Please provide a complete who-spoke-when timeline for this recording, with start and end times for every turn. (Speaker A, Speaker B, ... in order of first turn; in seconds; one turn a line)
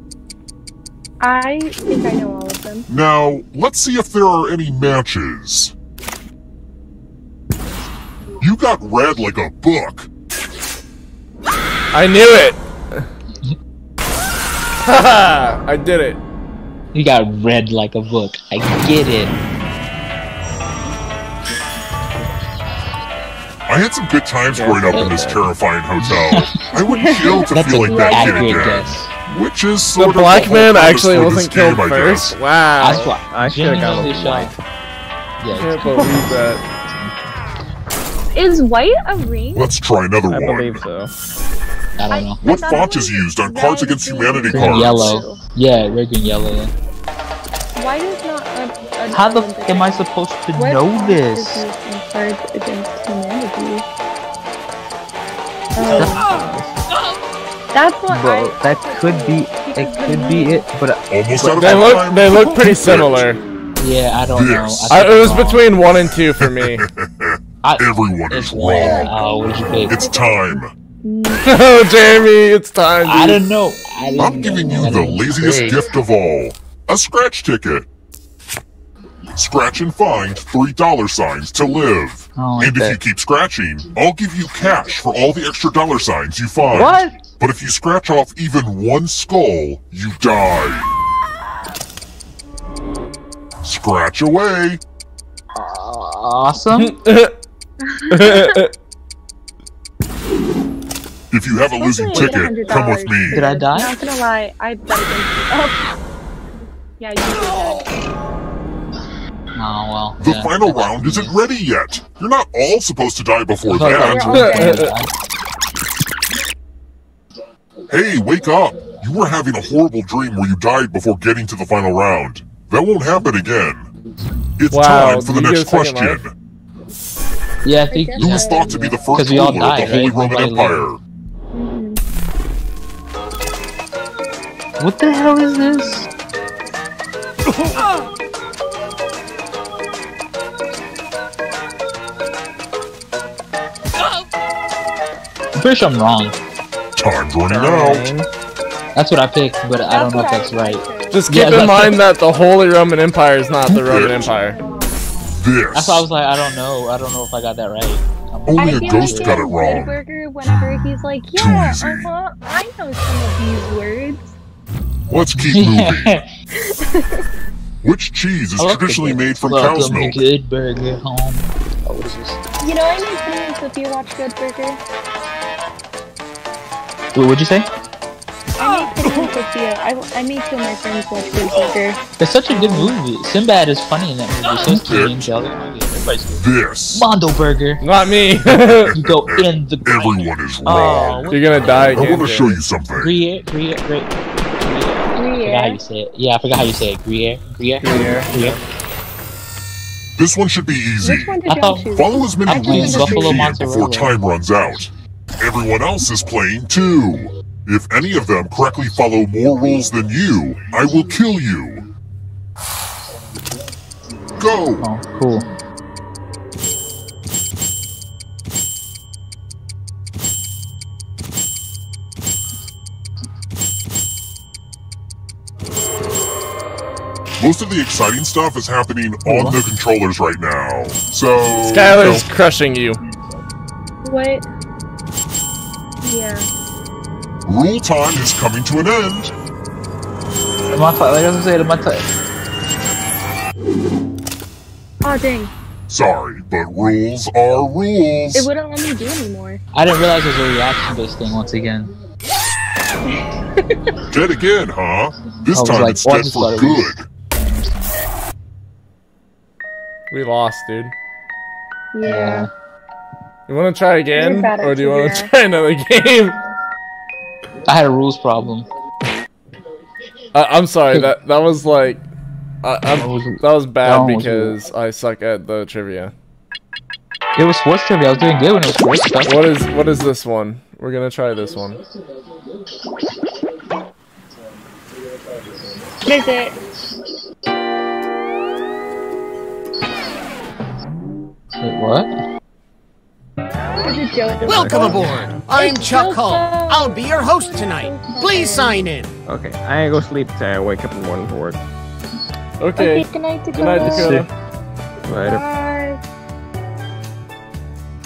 Speaker A: 1.2-2.9
Speaker B: 2.9-5.7
Speaker B: 8.4-10.1
Speaker C: 11.9-13.1
Speaker C: 14.8-16.2
Speaker D: 16.9-19.3
Speaker B: 23.7-32.4
Speaker E: 24.5-25.5
Speaker D: 26.0-26.6
Speaker A: 26.8-28.7
Speaker D: 27.5-29.1
Speaker C: 30.0-33.1
Speaker D: 32.8-34.5
Speaker E: 33.0-34.5
Speaker D: 35.4-37.3
Speaker C: 35.5-36.6
Speaker A: 38.3-39.7
Speaker B: 39.5-40.9
Speaker E: 40.3-41.1
Speaker D: 42.0-42.4
Speaker A: 42.1-45.4
Speaker B: 42.4-45.2
Speaker D: 44.5-46.7
Speaker A: 47.7-50.0
Speaker D: 49.1-51.6
Speaker A: 50.5-53.8
Speaker A: 55.8-56.3
Speaker D: 55.8-56.2
Speaker E: 56.1-56.8
Speaker A: 57.7-60.6
Speaker D: 58.1-61.9
Speaker B: 61.1-63.3
Speaker C: 61.6-63.4
Speaker D: 63.8-65.7
Speaker B: 64.3-65.0
Speaker C: 64.9-66.8
Speaker B: 66.4-69.1
Speaker D: 67.6-70.0
Speaker A: 68.7-71.6
Speaker B: 69.8-70.7
Speaker C: 71.4-73.4
Speaker D: 73.0-75.8
Speaker A: 74.1-74.9
Speaker B: 74.2-77.9
Speaker B: 79.3-90.9
Speaker D: 82.3-83.0
Speaker D: 86.7-87.2
Speaker B: 93.6-94.8
Speaker D: 95.5-96.9
Speaker C: 96.8-97.3
Speaker A: 97.8-98.6
Speaker C: 98.1-98.7
Speaker B: 101.3-103.4
Speaker A: 101.7-105.8
Speaker D: 103.3-103.9
Speaker A: 107.0-107.9
Speaker D: 109.5-111.3
Speaker B: 110.2-114.5
Speaker D: 113.7-115.1
Speaker A: 113.8-114.9
Speaker C: 114.4-114.9
Speaker B: 117.9-123.9
Speaker B: 124.6-126.3
Speaker C: 124.7-126.2
Speaker D: 127.6-130.8
Speaker A: 127.9-128.7
Speaker B: 128.2-131.0
Speaker A: 131.5-132.0
Speaker D: 134.8-136.1
Speaker D: 145.5-146.3
Speaker B: 147.0-148.1
Speaker E: 147.5-148.3
Speaker D: 148.9-152.0
Speaker A: 149.8-151.2
Speaker C: 151.1-154.6
Speaker B: 153.7-154.3
Speaker B: 155.3-156.1
Speaker D: 155.7-159.4
Speaker B: 158.5-159.9
Speaker A: 158.6-164.3
Speaker B: 161.3-162.1
Speaker B: 165.1-166.2
Speaker D: 165.4-166.2
Speaker A: 166.6-167.2
Speaker B: 167.8-170.2
Speaker D: 168.6-172.4
Speaker A: 172.6-174.8
Speaker D: 177.1-177.7
Speaker A: 178.6-182.0
Speaker D: 182.2-187.8
Speaker B: 184.6-185.3
Speaker B: 186.4-187.1
Speaker C: 187.8-188.9
Speaker B: 188.8-191.3
Speaker D: 188.9-192.2
Speaker C: 191.3-192.6
Speaker B: 191.9-193.1
Speaker D: 192.9-198.6
Speaker A: 195.1-195.8
Speaker E: 197.8-198.6
Speaker B: 200.2-201.3
Speaker A: 201.0-203.5
Speaker D: 201.4-201.9
Speaker B: 201.9-211.8
Speaker D: 202.4-204.1
Speaker B: 214.4-214.8
Speaker D: 214.8-215.4
Speaker B: 227.4-232.2
Speaker D: 229.2-229.6
Speaker C: 231.6-233.0
Speaker A: 234.0-234.4
Speaker A: 236.0-236.5
Speaker B: 237.4-239.3
Speaker D: 240.7-242.0
Speaker A: 245.0-245.5
Speaker B: 245.9-248.5
Speaker A: 248.3-249.6
Speaker D: 249.7-251.9
Speaker A: 253.2-253.8
Speaker B: 254.1-257.1
Speaker D: 255.5-257.9
Speaker C: 260.1-260.9
Speaker A: 261.9-262.5
Speaker D: 262.0-262.5
Speaker C: 263.5-266.4
Speaker A: 264.1-265.3
Speaker D: 267.6-268.6
Speaker C: 270.3-272.0
Speaker C: 272.6-276.1
Speaker D: 272.9-274.6
Speaker D: 277.4-279.3
Speaker C: 279.2-281.8
Speaker A: 286.0-286.6
Speaker D: 291.6-292.1
Speaker A: 293.8-298.8
Speaker F: 294.4-299.1
Speaker E: 294.5-295.4
Speaker E: 299.2-301.6
Speaker C: 302.6-304.3
Speaker A: 302.8-304.1
Speaker D: 303.8-304.2
Speaker E: 305.1-305.4
Speaker A: 305.2-306.0